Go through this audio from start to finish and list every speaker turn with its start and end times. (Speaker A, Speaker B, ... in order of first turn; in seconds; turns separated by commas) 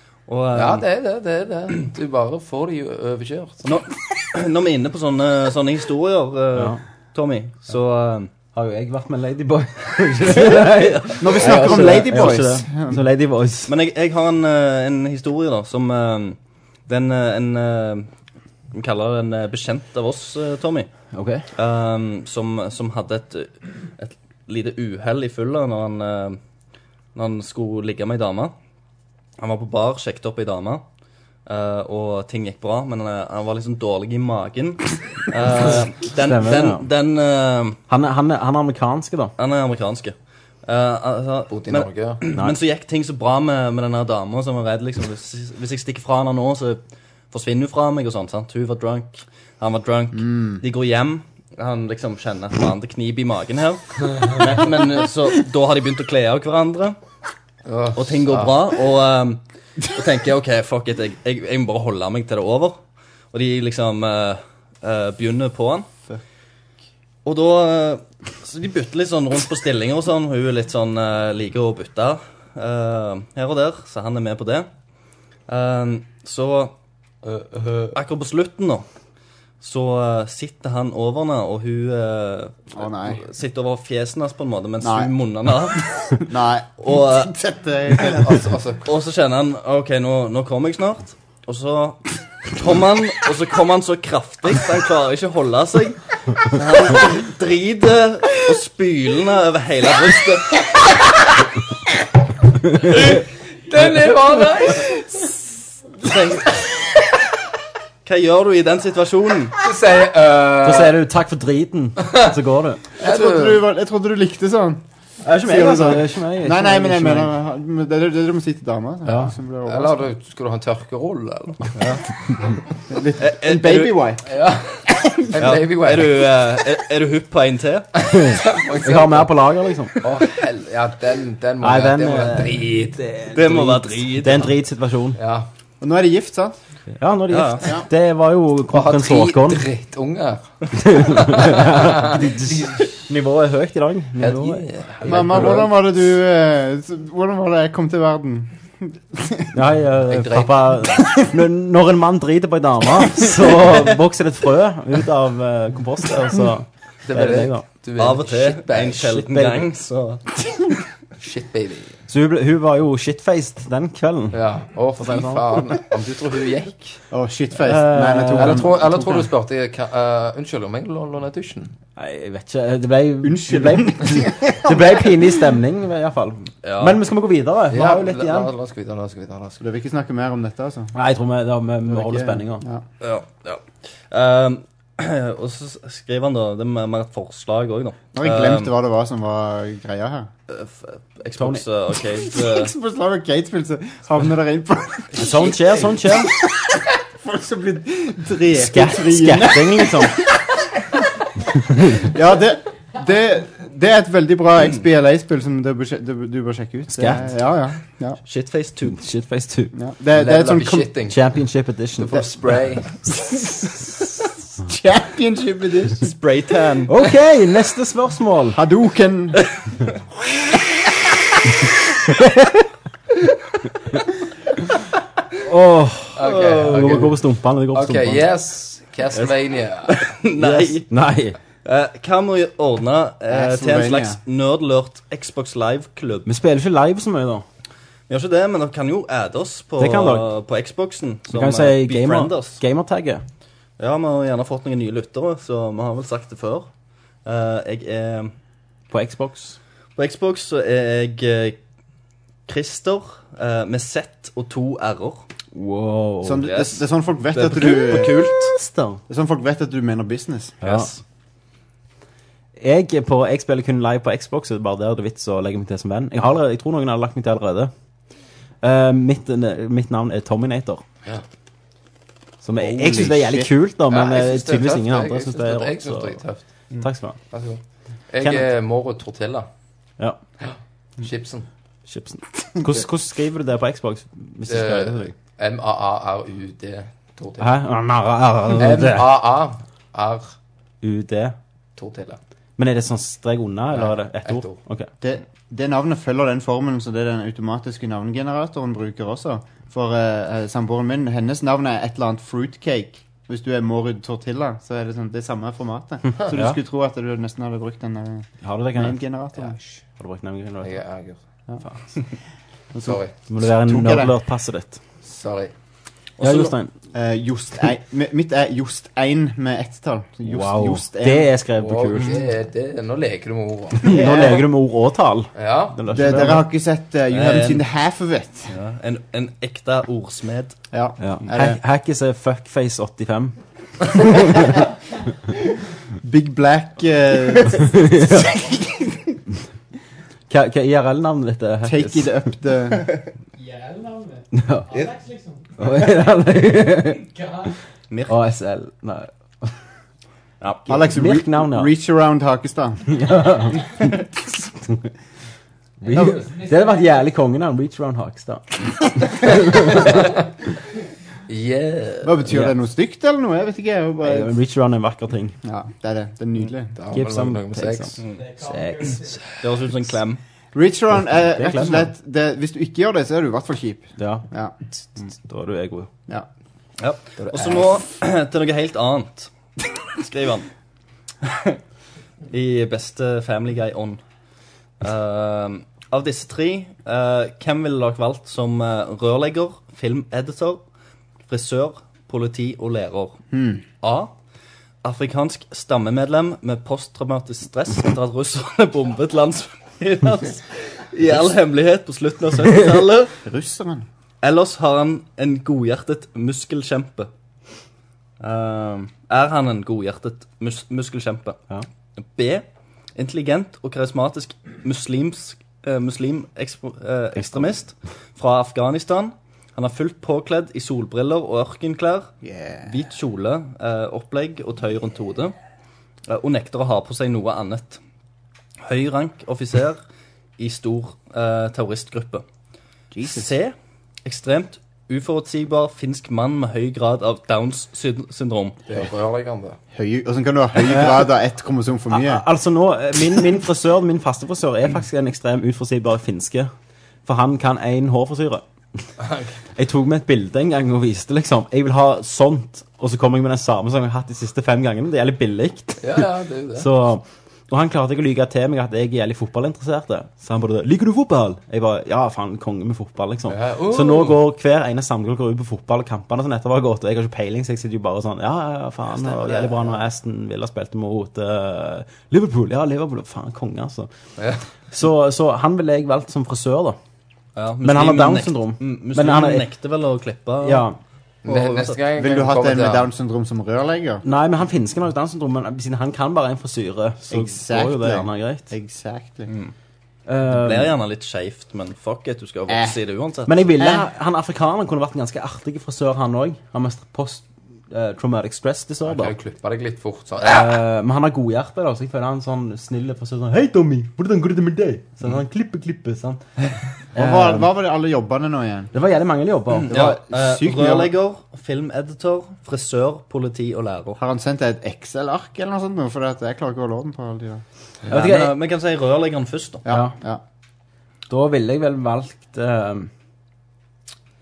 Speaker A: 0.3-0.8, Speaker B: 0.5-3.6, Speaker A: 3.6-8.3, Speaker C: 6.5-6.8, Speaker C: 8.5-13.7, Speaker A: 10.8-12.3, Speaker D: 11.2-13.0, Speaker A: 13.7-18.1, Speaker A: 18.7-20.9, Speaker C: 21.1-21.4, Speaker A: 21.5-26.4, Speaker A: 27.1-28.5, Speaker A: 29.4-30.8, Speaker A: 31.4-37.8, Speaker C: 36.1-36.9, Speaker C: 37.9-39.3, Speaker A: 39.4-46.8, Speaker B: 41.5-42.2, Speaker A: 47.3-57.0, Speaker D: 50.2-50.6, Speaker B: 57.6-58.5, Speaker A: 57.9-62.8, Speaker A: 63.3-65.9, Speaker A: 67.2-74.7, Speaker A: 75.5-76.7, Speaker B: 77.2-78.0, Speaker A: 77.9-78.8, Speaker A: 79.6-86.2, Speaker D: 82.7-83.2, Speaker D: 84.8-85.1, Speaker D: 86.3-88.5, Speaker A: 86.8-87.3, Speaker B: 88.0-88.9, Speaker A: 88.8-101.0, Speaker D: 96.6-97.0, Speaker B: 103.7-105.0, Speaker A: 106.0-106.6, Speaker A: 108.0-109.5, Speaker B: 109.6-111.0, Speaker C: 110.6-112.8, Speaker D: 113.0-114.8, Speaker B: 113.0-113.6, Speaker C: 115.2-117.3, Speaker D: 115.4-120.0, Speaker B: 119.0-121.8, Speaker A: 121.8-122.0, Speaker D: 122.9-124.2, Speaker A: 123.2-124.0, Speaker B: 124.3-126.4, Speaker D: 124.9-125.2, Speaker A: 125.4-127.9, Speaker C: 128.1-130.0, Speaker B: 128.3-129.3, Speaker B: 130.0-133.0, Speaker C: 131.6-135.2, Speaker A: 133.3-134.6, Speaker B: 135.2-135.5, Speaker D: 135.8-136.6, Speaker C: 137.0-139.7, Speaker A: 137.3-137.7, Speaker B: 138.7-143.0, Speaker C: 140.8-145.5, Speaker B: 144.2-145.7, Speaker D: 145.0-149.5, Speaker C: 149.5-157.6, Speaker B: 150.1-150.7, Speaker B: 157.1-159.1, Speaker A: 158.0-160.2, Speaker C: 159.0-159.7, Speaker B: 161.2-161.9, Speaker C: 162.1-164.4, Speaker B: 164.3-167.0, Speaker C: 165.0-165.4, Speaker D: 167.1-169.3, Speaker C: 167.5-168.8, Speaker B: 168.3-171.7, Speaker C: 172.0-178.5, Speaker D: 173.2-175.1, Speaker A: 176.6-177.0, Speaker B: 177.7-179.6, Speaker D: 179.6-180.9, Speaker C: 180.9-182.6, Speaker D: 181.9-182.8, Speaker A: 183.0-188.7, Speaker D: 188.1-190.3, Speaker A: 190.5-192.7, Speaker C: 191.4-191.6, Speaker D: 192.1-195.3, Speaker C: 195.1-196.3, Speaker B: 195.2-196.0, Speaker D: 197.2-200.4, Speaker C: 198.5-200.2, Speaker D: 201.7-208.2, Speaker C: 206.9-207.2, Speaker A: 208.2-209.0, Speaker C: 208.9-209.7, Speaker D: 209.7-210.9, Speaker B: 210.1-211.2, Speaker C: 211.1-212.3, Speaker B: 212.0-213.0, Speaker D: 214.6-216.1, Speaker A: 216.0-216.9, Speaker C: 216.9-218.6, Speaker D: 218.5-219.4, Speaker C: 222.1-222.5, Speaker C: 225.4-228.3, Speaker B: 226.2-230.2, Speaker A: 229.9-230.9, Speaker C: 230.4-231.4, Speaker A: 231.6-236.3, Speaker D: 233.3-234.2, Speaker C: 236.2-237.4, Speaker A: 238.1-242.6, Speaker C: 239.8-240.3, Speaker C: 241.3-243.2, Speaker A: 243.8-246.7, Speaker A: 247.2-248.3, Speaker C: 248.9-249.6, Speaker A: 249.9-251.6, Speaker A: 252.5-255.2, Speaker C: 255.5-256.5, Speaker D: 256.2-258.3, Speaker A: 256.4-258.5, Speaker C: 258.3-259.0, Speaker D: 259.1-260.6, Speaker C: 260.6-260.9, Speaker A: 260.6-261.0, Speaker C: 262.6-267.7, Speaker C: 268.6-270.8, Speaker C: 272.4-276.2, Speaker D: 272.6-273.5, Speaker B: 273.9-276.4, Speaker C: 276.8-277.2, Speaker B: 277.3-279.5, Speaker C: 278.2-278.5, Speaker B: 280.4-281.5, Speaker C: 281.9-285.1, Speaker B: 284.4-287.5, Speaker C: 287.4-289.2, Speaker B: 288.5-290.3, Speaker C: 290.8-291.4, Speaker B: 291.8-292.2, Speaker C: 292.6-294.9, Speaker B: 293.7-294.6, Speaker D: 295.0-309.6, Speaker C: 306.3-306.6, Speaker C: 308.4-309.0, Speaker B: 309.4-309.8, Speaker C: 310.0-310.8, Speaker B: 310.6-311.2, Speaker C: 311.6-311.9, Speaker C: 312.7-314.8, Speaker B: 312.8-313.1, Speaker D: 313.5-314.1, Speaker B: 315.0-315.5, Speaker A: 316.2-316.5, Speaker C: 316.2-316.7, Speaker D: 316.9-321.3, Speaker C: 320.2-322.2, Speaker B: 321.6-324.0, Speaker C: 323.8-326.5, Speaker D: 323.8-324.4, Speaker B: 325.3-326.3, Speaker D: 325.9-328.5, Speaker A: 327.1-327.6, Speaker A: 328.5-330.6, Speaker D: 330.7-331.6, Speaker C: 331.0-333.3, Speaker C: 333.9-334.6, Speaker D: 336.0-339.0, Speaker C: 337.6-338.3, Speaker C: 340.3-342.1, Speaker D: 341.6-342.9, Speaker E: 343.4-345.9, Speaker C: 344.3-344.7, Speaker C: 345.6-347.0, Speaker E: 346.8-347.5, Speaker A: 347.9-348.2, Speaker C: 348.1-349.5, Speaker A: 350.4-350.9, Speaker D: 350.7-352.8, Speaker C: 350.8-351.7, Speaker C: 352.9-354.0, Speaker C: 354.6-354.9, Speaker C: 355.8-360.1, Speaker E: 355.9-357.0, Speaker B: 359.7-360.2, Speaker B: 361.3-362.1, Speaker D: 362.0-364.3, Speaker C: 362.3-362.5, Speaker C: 364.0-365.4, Speaker D: 365.4-366.7, Speaker B: 366.7-368.1, Speaker C: 366.9-369.0, Speaker E: 368.1-369.2, Speaker A: 369.3-370.2, Speaker D: 370.5-374.5, Speaker C: 370.9-371.9, Speaker C: 374.0-374.2, Speaker C: 374.8-375.9, Speaker A: 376.8-380.5, Speaker D: 377.2-377.8, Speaker A: 381.2-381.6, Speaker A: 382.3-384.0, Speaker A: 384.8-390.6, Speaker A: 391.3-393.2, Speaker D: 393.3-393.6, Speaker A: 393.8-394.1, Speaker A: 394.8-403.2, Speaker D: 403.2-403.8, Speaker A: 404.2-407.1, Speaker A: 408.2-411.4, Speaker A: 412.0-412.4, Speaker A: 413.0-422.1, Speaker C: 417.1-417.6, Speaker D: 422.2-422.7, Speaker A: 422.6-425.3, Speaker A: 426.1-427.8, Speaker A: 428.6-429.8, Speaker A: 430.4-432.2, Speaker D: 432.9-433.3, Speaker A: 433.0-438.6, Speaker B: 438.6-439.6, Speaker D: 439.7-442.2, Speaker C: 440.7-441.1, Speaker C: 441.9-446.5, Speaker C: 447.1-448.4, Speaker B: 449.0-449.4, Speaker C: 449.6-473.9, Speaker B: 455.8-456.7, Speaker B: 463.3-464.2, Speaker B: 468.9-469.8, Speaker C: 474.7-476.8, Speaker A: 477.4-480.6, Speaker C: 477.6-479.5, Speaker C: 480.4-480.8, Speaker A: 481.2-481.8, Speaker B: 481.2-482.9, Speaker D: 482.0-484.0, Speaker C: 484.0-488.5, Speaker D: 487.1-489.3, Speaker A: 489.3-489.5, Speaker C: 490.1-490.7, Speaker A: 490.3-493.3, Speaker D: 492.5-492.7, Speaker C: 493.3-499.1, Speaker D: 493.6-493.9, Speaker B: 498.8-500.6, Speaker C: 500.2-506.2, Speaker C: 506.9-507.5, Speaker D: 506.9-508.7, Speaker C: 508.7-509.8, Speaker A: 509.6-514.0, Speaker D: 509.7-510.9, Speaker D: 514.0-517.4, Speaker A: 517.9-519.6, Speaker C: 517.9-518.3, Speaker D: 519.6-520.2, Speaker C: 519.7-519.9, Speaker C: 521.1-522.9